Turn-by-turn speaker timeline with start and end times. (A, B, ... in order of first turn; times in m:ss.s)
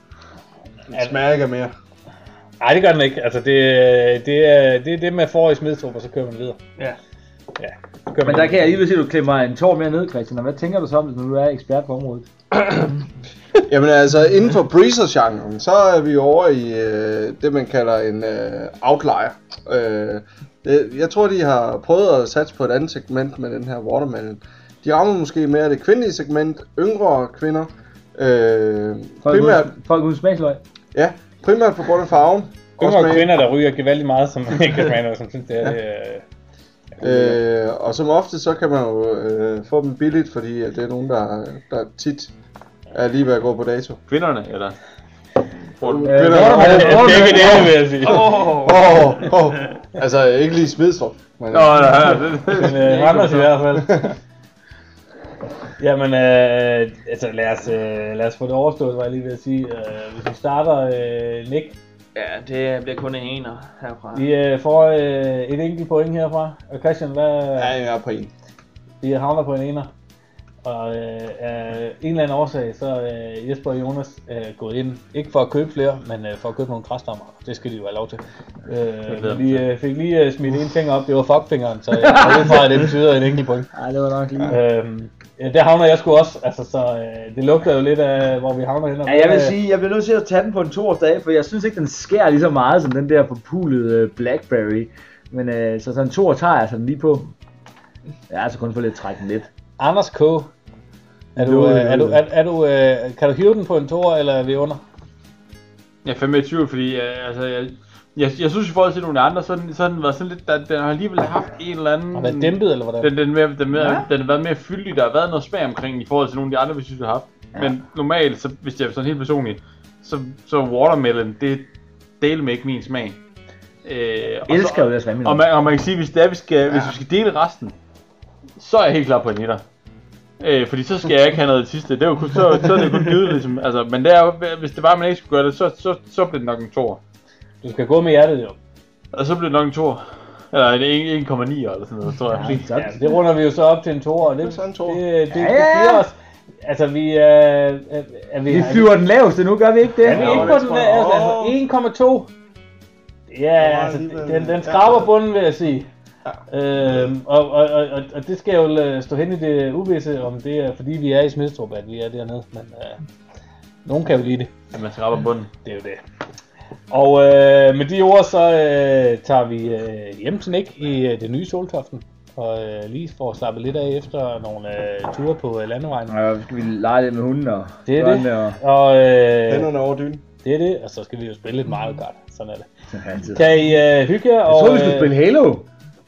0:00.9-0:01.7 A
0:02.6-0:06.6 B
0:07.6-0:08.8 B
0:08.2-0:12.3 C
0:12.6-0:12.9 A
0:13.7-0:29.7 A
0:29.2-0:30.6 C
0:30.9-0:33.3 A
0:32.8-0:36.2 B
0:37.0-0:37.4 B
0:37.0-0:42.3 A
0:42.9-0:44.0 A
0:44.1-0:44.8 D
0:45.8-0:47.1 D
0:45.9-0:52.1 A
0:45.9-0:47.2 C
0:46.3-0:48.4 B
0:47.9-0:49.6 E
0:51.5-0:53.4 D
0:52.6-0:54.1 B
0:52.8-0:53.5 E
0:53.8-0:54.2 A
0:55.8-1:01.8 B
1:02.2-1:04.3 E
1:04.1-1:07.8 B
1:07.6-1:08.3 A
1:09.0-1:09.9 B
1:10.6-1:23.7 B
1:19.1-1:19.6 D
1:22.0-1:22.8 C
1:23.7-1:24.6 C
1:24.4-1:29.6 B
1:29.0-1:37.3 C
1:38.3-1:39.5 C
1:39.8-1:40.5 B
1:41.4-1:44.8 B
1:41.4-1:42.2 C
1:46.0-2:03.2 D
1:52.1-1:53.1 B
1:53.8-1:54.1 C
2:03.8-2:07.8 D
2:04.5-2:05.5 C
2:06.7-2:07.0 A
2:08.6-2:09.6 D
2:10.4-2:17.0 D
2:17.6-2:18.6 B
2:19.1-2:22.7 D
2:22.3-2:23.1 C
2:22.7-2:29.0 B
2:24.4-2:25.1 A
2:25.3-2:26.1 C
2:28.5-2:30.5 C
2:30.0-2:32.3 B
2:30.1-2:31.0 E
2:30.1-2:31.6 A
2:33.3-2:35.9 B
2:33.6-2:35.1 A
2:36.5-2:43.0 B
2:43.8-2:44.5 B
2:44.7-2:45.5 D
2:45.6-2:46.0 B
2:46.9-2:56.2 B
2:56.1-2:58.6 C
2:57.9-2:59.7 B
2:59.5-3:00.2 A
3:00.4-3:02.7 B
3:02.9-3:03.5 C
3:03.3-3:05.1 B
3:04.5-3:05.7 C